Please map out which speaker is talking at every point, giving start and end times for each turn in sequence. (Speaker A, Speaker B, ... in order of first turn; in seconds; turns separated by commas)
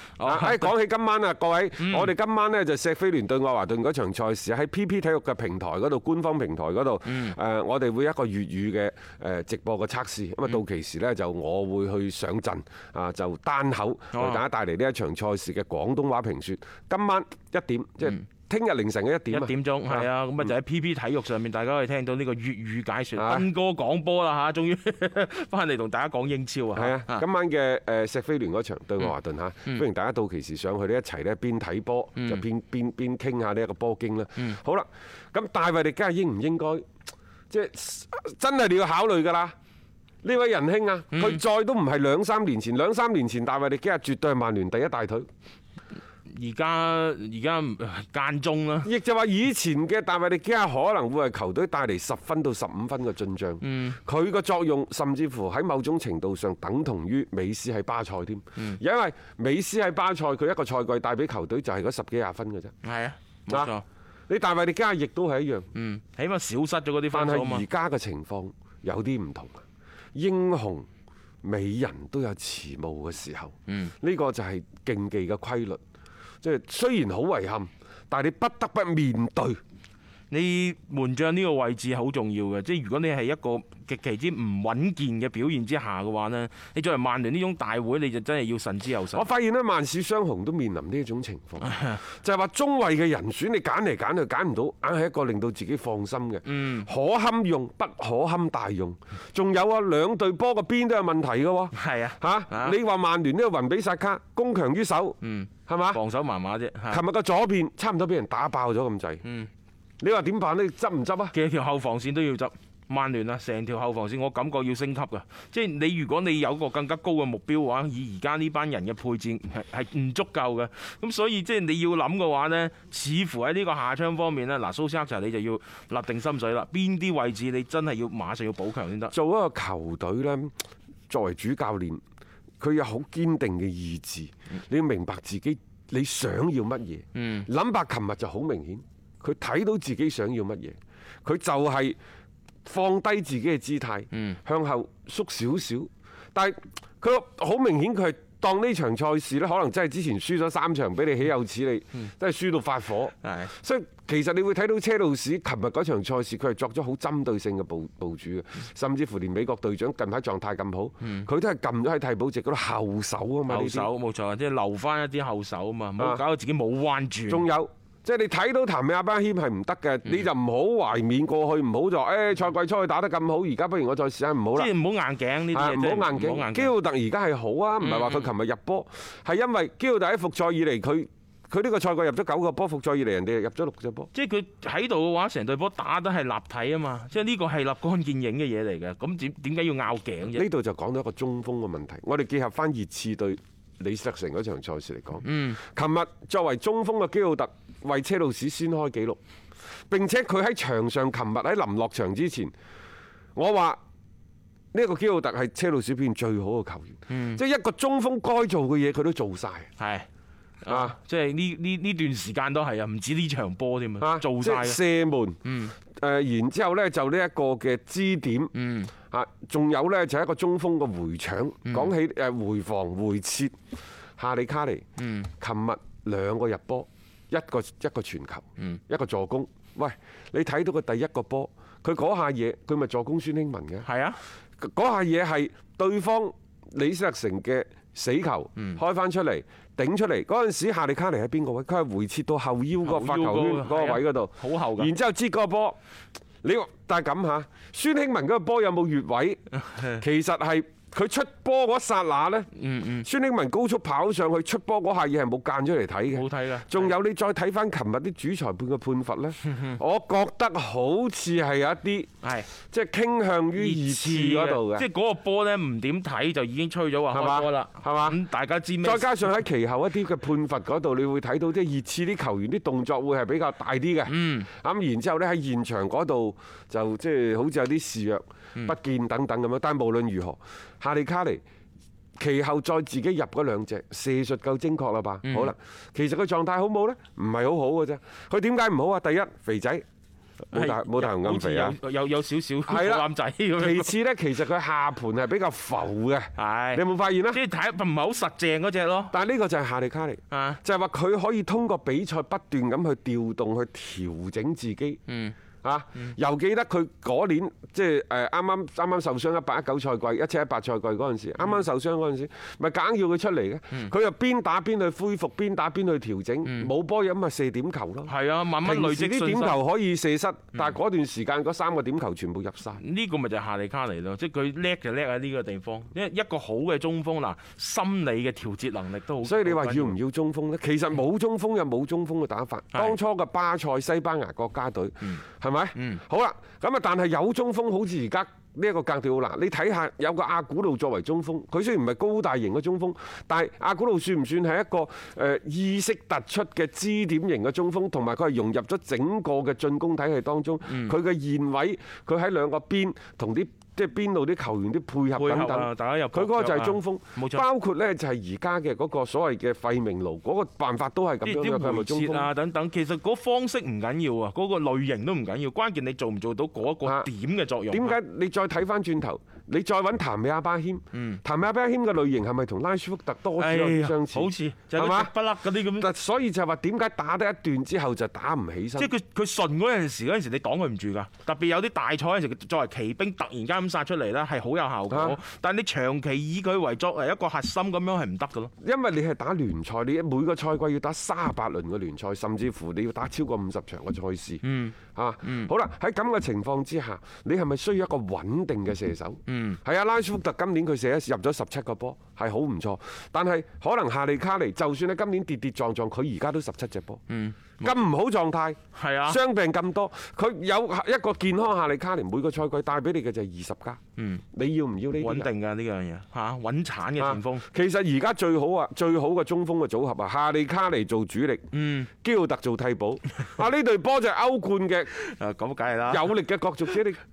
Speaker A: 0.2-0.7, Speaker B: 0.2-20.1, Speaker A: 1.8-2.1, Speaker A: 7.1-7.3, Speaker A: 14.1-14.4, Speaker A: 19.3-27.2, Speaker B: 23.1-23.4, Speaker B: 26.7-36.9, Speaker A: 32.2-32.4, Speaker B: 37.5-39.5, Speaker B: 40.2-45.3, Speaker A: 41.1-41.4, Speaker A: 46.3-48.9, Speaker B: 48.8-62.7, Speaker A: 53.6-54.0, Speaker A: 62.8-63.8, Speaker B: 64.3-65.7, Speaker A: 65.7-67.6, Speaker B: 67.1-69.6, Speaker B: 70.1-70.9, Speaker B: 71.4-75.8, Speaker A: 73.7-73.9, Speaker B: 76.4-79.6, Speaker A: 80.3-89.3, Speaker B: 89.1-106.0, Speaker A: 91.6-92.0, Speaker A: 96.4-96.9, Speaker A: 101.7-102.8, Speaker A: 105.2-107.0, Speaker B: 106.9-109.2, Speaker A: 109.2-109.5, Speaker B: 110.0-111.3, Speaker A: 111.3-129.1, Speaker B: 129.1-130.5, Speaker B: 131.1-132.0, Speaker B: 132.6-142.0, Speaker A: 137.1-137.5, Speaker B: 142.6-163.9, Speaker A: 144.1-144.4, Speaker A: 153.2-153.5, Speaker A: 161.0-161.3, Speaker A: 163.5-167.5, Speaker B: 166.0-166.2, Speaker B: 167.3-174.7, Speaker A: 174.5-176.7, Speaker B: 175.5-184.1, Speaker A: 177.8-178.3, Speaker A: 184.1-190.4, Speaker B: 190.3-199.2, Speaker A: 195.2-195.6, Speaker B: 199.9-202.5, Speaker B: 203.3-203.8, Speaker B: 204.7-209.7, Speaker A: 207.1-207.4, Speaker A: 209.8-210.1, Speaker A: 210.6-214.8, Speaker B: 210.7-210.9, Speaker B: 214.0-215.4, Speaker A: 215.4-215.7, Speaker B: 215.9-218.5, Speaker A: 218.5-218.9, Speaker B: 219.1-223.6, Speaker A: 221.6-221.9, Speaker B: 224.2-224.8, Speaker A: 225.0-225.3, Speaker B: 225.4-233.9, Speaker A: 233.8-234.2, Speaker B: 234.6-245.8, Speaker A: 242.8-244.9, Speaker B: 246.4-249.4, Speaker A: 249.6-250.0, Speaker B: 250.0-252.5, Speaker A: 252.5-253.1, Speaker B: 253.0-264.9, Speaker A: 256.1-256.9, Speaker A: 259.4-259.8, Speaker A: 262.2-262.5, Speaker A: 263.6-269.2, Speaker B: 267.1-268.2, Speaker B: 268.8-281.4, Speaker A: 274.1-274.5, Speaker B: 282.2-289.8, Speaker A: 285.2-285.5, Speaker B: 290.5-291.8, Speaker A: 290.5-293.9, Speaker B: 292.7-297.4, Speaker A: 296.4-299.1, Speaker B: 299.1-305.0, Speaker A: 300.3-300.6, Speaker A: 305.1-305.4, Speaker B: 305.6-322.8, Speaker A: 316.4-316.7, Speaker A: 318.1-319.6, Speaker A: 322.8-329.9, Speaker B: 329.2-362.3, Speaker A: 335.7-336.0, Speaker A: 350.6-350.9, Speaker A: 355.1-357.4, Speaker A: 361.2-368.0, Speaker B: 367.7-375.1, Speaker A: 370.9-371.2, Speaker A: 373.4-375.9, Speaker B: 375.8-378.9, Speaker A: 378.8-388.5, Speaker B: 384.9-385.2, Speaker B: 388.6-407.0, Speaker A: 394.4-395.5, Speaker A: 399.3-399.6, Speaker A: 407.1-407.8, Speaker B: 407.6-413.8, Speaker A: 408.7-409.2, Speaker A: 414.0-414.2, Speaker B: 414.3-415.3, Speaker A: 415.0-417.4, Speaker B: 417.0-424.9, Speaker A: 421.5-421.9, Speaker A: 424.9-426.1, Speaker B: 425.9-427.0